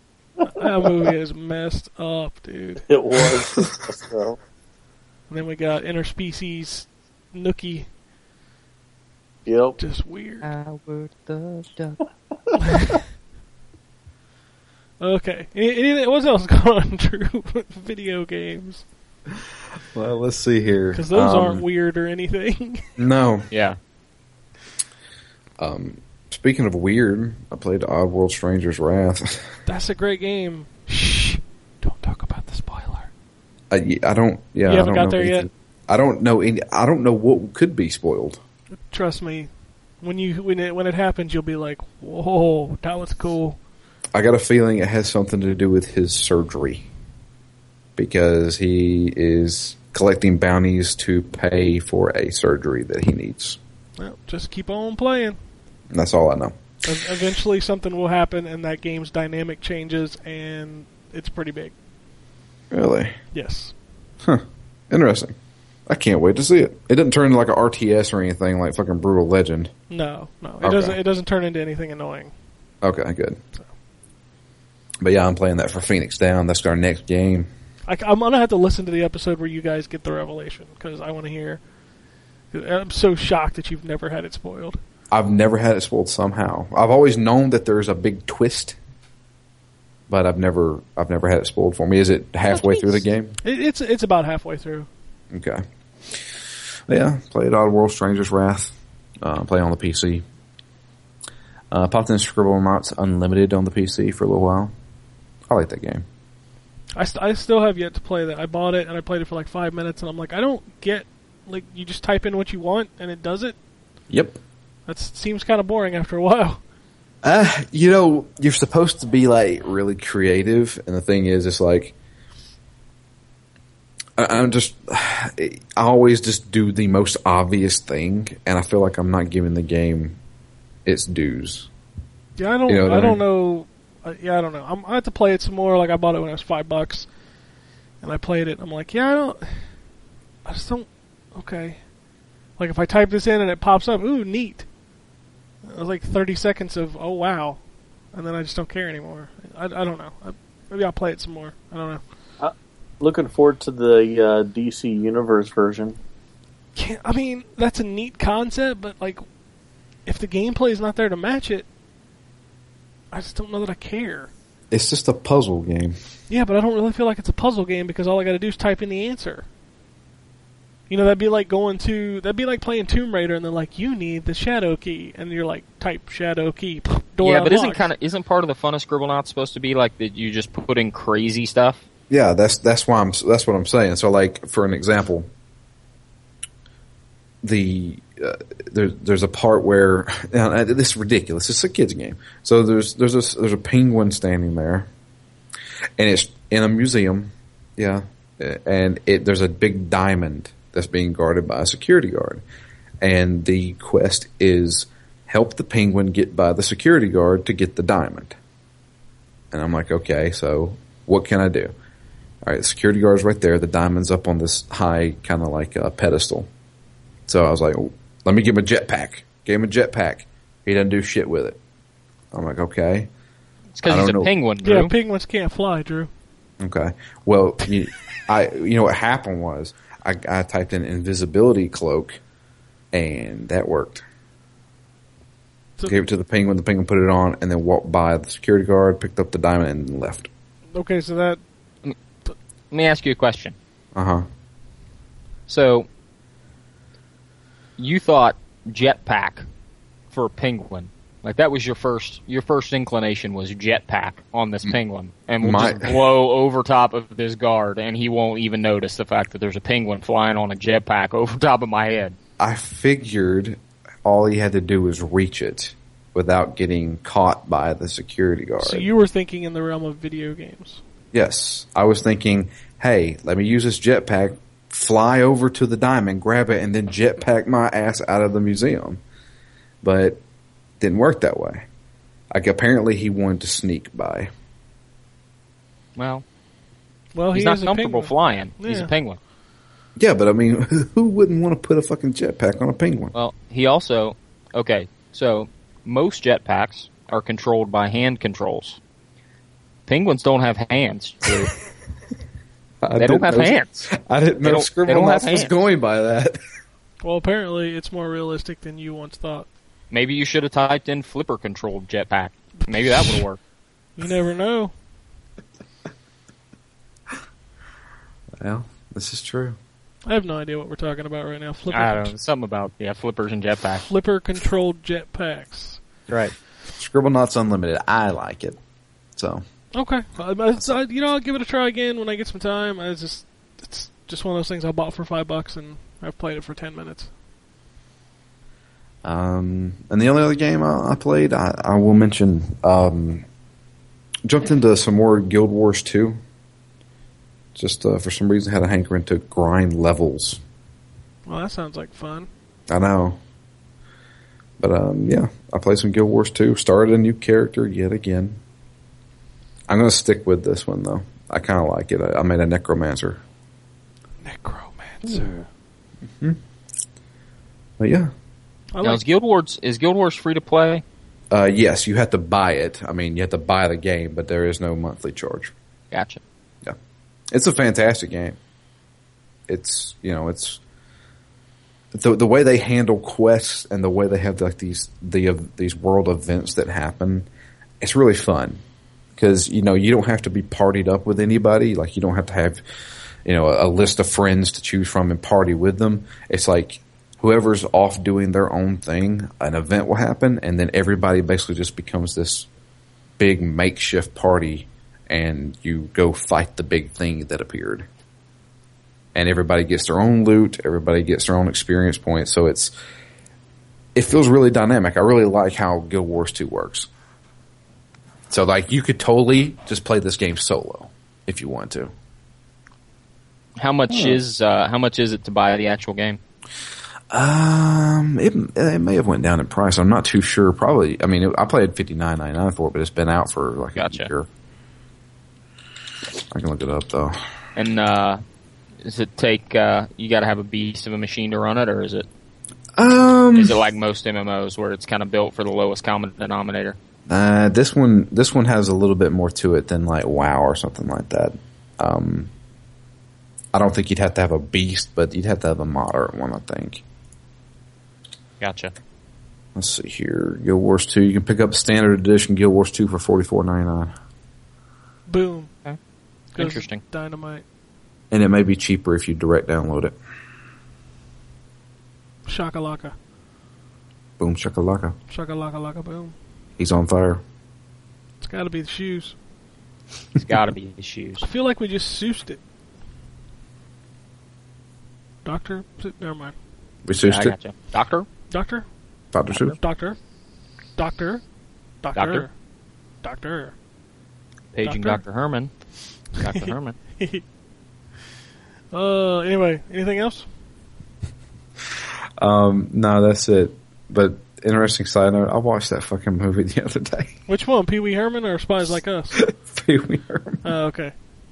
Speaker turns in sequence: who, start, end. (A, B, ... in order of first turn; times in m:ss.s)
0:00.4-0:02.9 A
0:02.9-0:04.4 B
0:05.3-0:07.9 A
0:09.5-0:09.8 B
0:09.8-0:10.5 A
0:10.4-0:12.0 C
0:15.0-0:18.8 A
0:19.9-0:21.6 D
0:20.9-0:22.9 A
0:23.0-0:23.5 D
0:23.5-0:23.8 C
0:25.6-0:29.6 D
0:29.7-0:33.1 A
0:33.7-0:38.4 D
0:34.7-0:35.5 A
0:38.9-0:39.5 A
0:40.0-0:43.6 A
0:44.1-0:46.9 D
0:48.0-0:53.6 D
0:54.0-0:55.4 A
0:55.9-0:56.6 D
0:56.8-1:01.8 A
1:02.7-1:03.2 D
1:03.3-1:03.8 A
1:04.2-1:05.4 D
1:05.9-1:09.7 D
1:09.9-1:12.3 A
1:10.6-1:11.0 D
1:12.8-1:13.4 D
1:15.0-1:17.5 D
1:17.9-1:21.6 A
1:22.5-1:24.8 A
1:25.1-1:28.8 D
1:30.1-1:33.4 D
1:32.6-1:34.9 A
1:35.3-1:36.2 D
1:36.9-1:40.2 D
1:41.7-1:44.7 D
1:45.5-1:46.0 D
1:47.0-1:53.6 A
1:54.1-1:54.4 D
1:54.9-1:56.6 A
1:57.2-2:01.9 D
2:04.2-2:10.2 D
2:10.9-2:11.7 D
2:12.4-2:17.1 A
2:12.7-2:13.2 D
2:18.0-2:19.7 A
2:20.5-2:21.8 A
2:22.6-2:24.7 A
2:25.6-2:27.6 A
2:28.1-2:32.0 A
2:32.4-2:36.0 B
2:36.8-2:39.2 A
2:40.1-2:41.7 A
2:43.1-2:44.3 A
2:44.7-2:46.0 D
2:46.3-2:49.5 A
2:50.9-2:57.9 A
2:57.2-3:01.8 C
3:02.1-3:05.3 D
3:07.4-3:14.9 D
3:16.0-3:22.4 D
3:23.0-3:28.4 D
3:29.5-3:31.7 D
3:32.5-3:36.5 D
3:37.3-3:41.6 D
3:42.3-3:43.1 D
3:43.8-3:44.9 C
3:43.8-3:44.3 D
3:44.6-3:46.1 A
3:46.6-3:52.2 D
3:52.9-3:54.0 D
3:55.9-4:00.3 D
4:00.7-4:01.4 A
4:02.7-4:03.6 C
4:04.0-4:04.2 D
4:05.5-4:05.9 C
4:07.8-4:09.4 C
4:10.1-4:22.2 C
4:15.4-4:16.0 D
4:22.4-4:28.9 D
4:28.6-4:30.8 A
4:31.1-4:39.0 D
4:39.8-4:40.2 D
4:40.8-4:41.7 D
4:42.3-4:44.3 D
4:46.0-4:46.2 C
4:47.2-4:48.9 A
4:47.3-4:49.2 C
4:50.0-4:53.1 D
4:53.1-4:58.8 C
4:59.9-5:01.5 C
5:02.8-5:06.4 D
5:03.0-5:03.9 C
5:04.4-5:05.6 C
5:07.0-5:09.5 A
5:09.9-5:13.4 C
5:12.7-5:13.2 A
5:14.0-5:14.7 A
5:18.4-5:19.6 D
5:20.1-5:22.1 A
5:21.7-5:23.9 C
5:23.8-5:25.8 A
5:26.1-5:26.3 C
5:26.8-5:28.6 D
5:29.2-5:29.4 D
5:29.7-5:37.1 A
5:39.0-5:43.2 D
5:44.2-5:46.2 D
5:47.6-5:50.4 D
5:51.3-5:52.3 A
5:52.7-5:53.2 D
5:54.6-5:58.4 D
5:59.7-6:03.2 D
6:04.2-6:05.4 A
6:07.8-6:08.1 D
6:08.7-6:09.1 A
6:08.8-6:10.8 C
6:11.3-6:15.5 D
6:15.9-6:16.2 C
6:17.3-6:18.4 D
6:19.5-6:20.6 D
6:21.9-6:27.3 D
6:27.8-6:28.6 D
6:29.2-6:32.6 D
6:33.2-6:42.5 D
6:43.2-6:47.9 D
6:49.2-6:52.7 D
6:54.0-6:56.9 D
6:58.3-7:01.9 D
7:03.6-7:06.2 C
7:03.9-7:04.2 D
7:07.1-7:14.3 D
7:13.8-7:14.1 C
7:16.3-7:17.2 D
7:17.6-7:18.2 C
7:18.8-7:22.1 C
7:22.8-7:23.6 D
7:23.4-7:26.8 C
7:27.1-7:32.3 D
7:33.5-7:36.8 D
7:38.4-7:38.7 C
7:39.6-7:43.9 D
7:45.1-7:45.5 A
7:46.3-7:47.4 A
7:46.4-7:46.8 C
7:48.1-7:50.0 D
7:52.3-7:53.0 A
7:54.2-7:55.0 D
7:55.1-7:56.2 A
7:56.6-7:57.2 D
7:58.2-7:59.2 A
8:00.2-8:01.3 C
8:01.2-8:02.4 A
8:05.2-8:06.4 A
8:06.9-8:07.4 D
8:07.0-8:08.1 C
8:08.3-8:08.7 A
8:09.1-8:09.6 D
8:09.6-8:10.0 A
8:10.8-8:11.2 A
8:11.8-8:12.3 A
8:12.0-8:12.3 C
8:13.0-8:13.5 A
8:14.5-8:15.6 C
8:14.6-8:15.0 A
8:16.1-8:16.8 C
8:16.2-8:17.2 A
8:18.7-8:20.3 A
8:22.2-8:27.1 D
8:27.3-8:29.2 A
8:29.1-8:30.4 D
8:30.4-8:30.9 A